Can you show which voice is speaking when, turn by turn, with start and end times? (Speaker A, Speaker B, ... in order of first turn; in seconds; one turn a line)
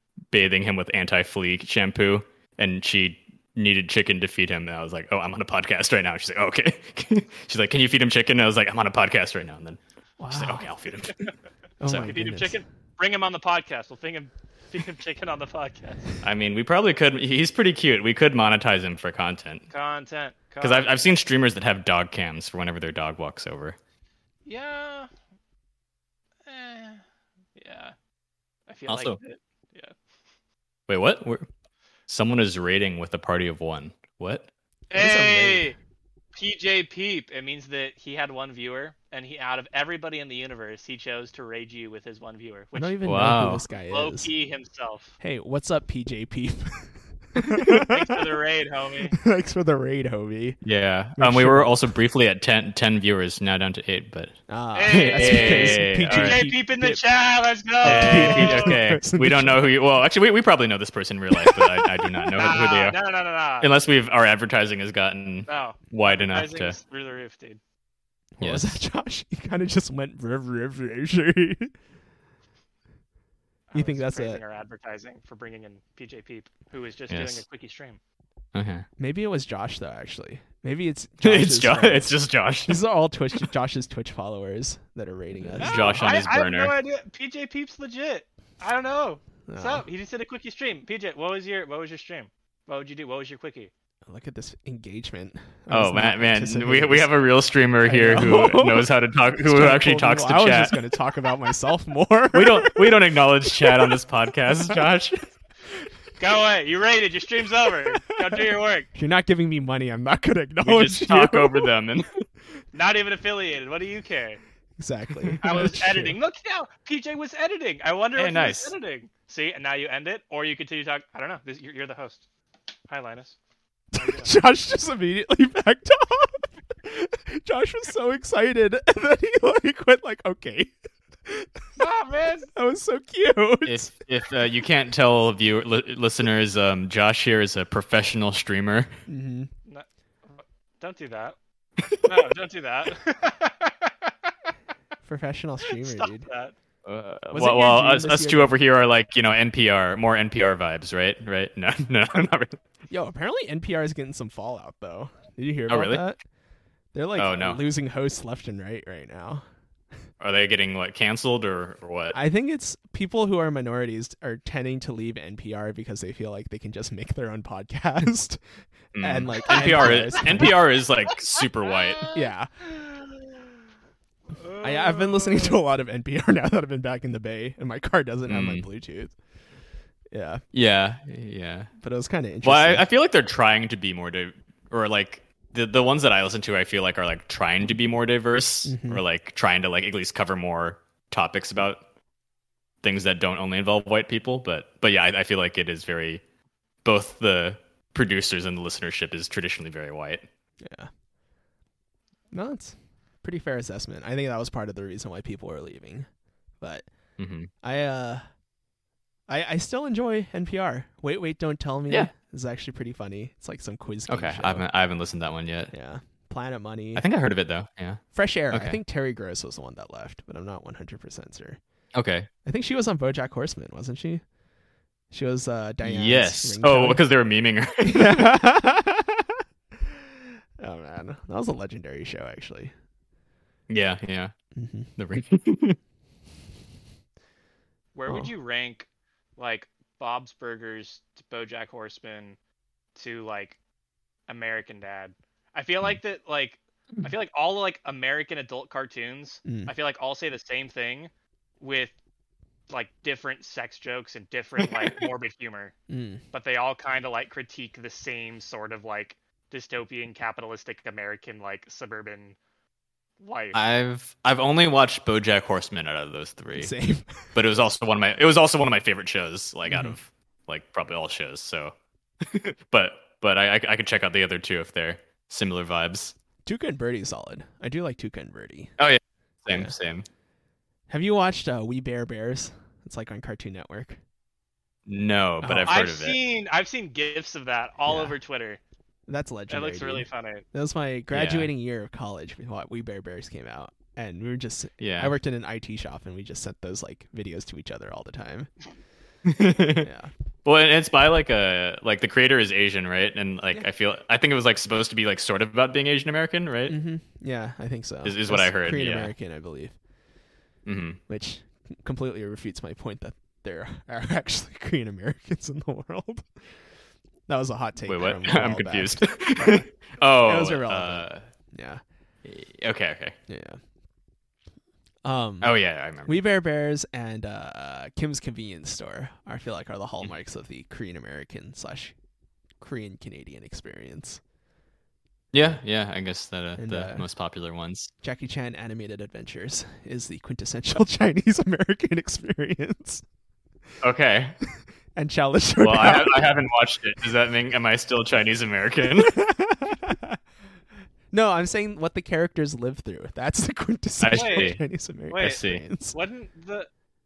Speaker A: 0.3-11.3
Speaker B: 10.2-10.7
Speaker B: 11.8-12.6
Speaker C: 11.9-16.1
Speaker A: 16.2-19.7
Speaker C: 19.7-21.1
Speaker A: 20.6-23.8
Speaker C: 24.5-25.1
Speaker C: 26.5-27.0
Speaker C: 27.6-27.9
Speaker C: 28.7-29.9
Speaker A: 28.9-29.2
Speaker A: 30.9-31.5
Speaker A: 32.1-34.5
Speaker C: 34.9-35.8
Speaker B: 34.9-35.7
Speaker C: 36.3-43.0
Speaker B: 42.7-44.3
Speaker A: 43.1-43.6
Speaker C: 43.8-45.2
Speaker B: 45.2-48.1
Speaker C: 47.9-49.2
Speaker B: 49.2-50.6
Speaker A: 50.6-54.4
Speaker B: 51.2-51.8
Speaker B: 54.5-57.0
Speaker C: 54.8-58.8
Speaker A: 54.9-56.4
Speaker B: 57.8-59.7
Speaker A: 57.8-63.0
Speaker B: 61.4-62.3
Speaker C: 62.4-63.7
Speaker A: 63.6-66.8
Speaker C: 65.5-67.6
Speaker B: 68.4-71.7
Speaker A: 68.4-68.8
Speaker C: 73.7-78.0
Speaker B: 73.7-74.4
Speaker A: 77.1-77.4
Speaker A: 78.5-78.9
Speaker B: 79.0-82.1
Speaker A: 81.2-82.8
Speaker B: 82.7-86.0
Speaker A: 85.5-86.7
Speaker C: 85.6-93.7
Speaker B: 89.5-89.8
Speaker B: 94.1-97.1
Speaker A: 95.7-100.8
Speaker B: 97.8-103.0
Speaker A: 102.3-105.2
Speaker B: 103.6-103.9
Speaker C: 106.2-108.9
Speaker B: 108.1-108.4
Speaker B: 108.9-111.7
Speaker A: 110.6-112.2
Speaker C: 112.7-114.4
Speaker B: 114.8-116.2
Speaker C: 115.4-122.2
Speaker A: 118.2-118.8
Speaker C: 122.9-123.4
Speaker C: 123.9-124.3
Speaker B: 124.0-130.7
Speaker C: 131.8-132.5
Speaker B: 132.5-133.9
Speaker A: 133.7-138.9
Speaker B: 139.1-139.5
Speaker C: 139.7-141.4
Speaker C: 142.0-144.1
Speaker B: 145.0-146.3
Speaker C: 145.7-146.5
Speaker A: 146.8-152.6
Speaker B: 147.3-148.6
Speaker B: 152.9-156.2
Speaker A: 155.7-156.1
Speaker B: 156.9-159.4
Speaker A: 157.2-157.6
Speaker A: 160.2-162.2
Speaker B: 162.1-168.4
Speaker A: 168.9-172.1
Speaker B: 169.0-170.6
Speaker C: 169.5-170.5
Speaker C: 171.1-173.4
Speaker B: 172.1-172.5
Speaker C: 174.3-175.6
Speaker B: 174.6-179.2
Speaker A: 178.3-178.7
Speaker B: 180.1-180.4
Speaker A: 180.5-181.7
Speaker B: 181.8-182.9
Speaker A: 182.4-191.8
Speaker B: 188.6-189.0
Speaker A: 192.8-196.2
Speaker A: 196.8-200.3
Speaker B: 200.6-200.9
Speaker B: 202.3-206.1
Speaker B: 206.6-206.9
Speaker A: 207.2-207.5
Speaker B: 207.6-208.3
Speaker B: 209.3-214.7
Speaker A: 214.1-215.7
Speaker B: 215.7-217.1
Speaker A: 217.0-218.8
Speaker B: 218.1-221.6
Speaker A: 221.9-222.3
Speaker B: 222.4-224.2
Speaker B: 225.1-227.1
Speaker A: 225.8-228.3
Speaker B: 227.8-229.3
Speaker B: 230.6-232.7
Speaker A: 233.7-234.3
Speaker B: 234.6-234.9
Speaker A: 235.0-235.8
Speaker C: 237.9-242.4
Speaker C: 242.9-243.6
Speaker C: 244.3-251.9
Speaker B: 249.4-249.7
Speaker C: 252.7-255.8
Speaker B: 255.9-256.2
Speaker C: 256.3-262.4
Speaker C: 263.2-263.6
Speaker A: 263.5-266.7
Speaker B: 266.6-267.3
Speaker A: 267.3-276.1
Speaker B: 269.7-270.0
Speaker B: 276.4-278.7
Speaker A: 278.8-280.1
Speaker B: 279.5-279.7
Speaker B: 280.9-284.0
Speaker A: 284.9-286.2
Speaker B: 285.4-285.7
Speaker C: 285.7-288.6
Speaker B: 287.9-288.2
Speaker B: 289.1-298.5
Speaker C: 289.5-290.4
Speaker A: 291.1-291.5
Speaker A: 294.8-295.1
Speaker A: 299.2-299.9
Speaker B: 299.8-300.1
Speaker A: 300.4-306.8
Speaker B: 306.7-309.8
Speaker A: 308.0-309.1
Speaker A: 310.6-311.0
Speaker B: 311.1-316.3
Speaker B: 317.3-319.7
Speaker A: 317.8-321.3
Speaker B: 320.2-321.8
Speaker A: 322.2-323.2
Speaker B: 323.3-323.6
Speaker B: 325.0-331.9
Speaker A: 325.4-326.1
Speaker B: 332.6-334.2
Speaker A: 335.3-337.9
Speaker B: 336.6-337.1
Speaker B: 338.0-343.0
Speaker A: 343.8-344.4
Speaker B: 344.9-346.4
Speaker A: 345.6-349.1
Speaker B: 349.1-350.2
Speaker B: 351.1-356.0
Speaker A: 354.0-354.6
Speaker C: 354.1-354.6
Speaker C: 355.1-356.7
Speaker A: 355.2-355.6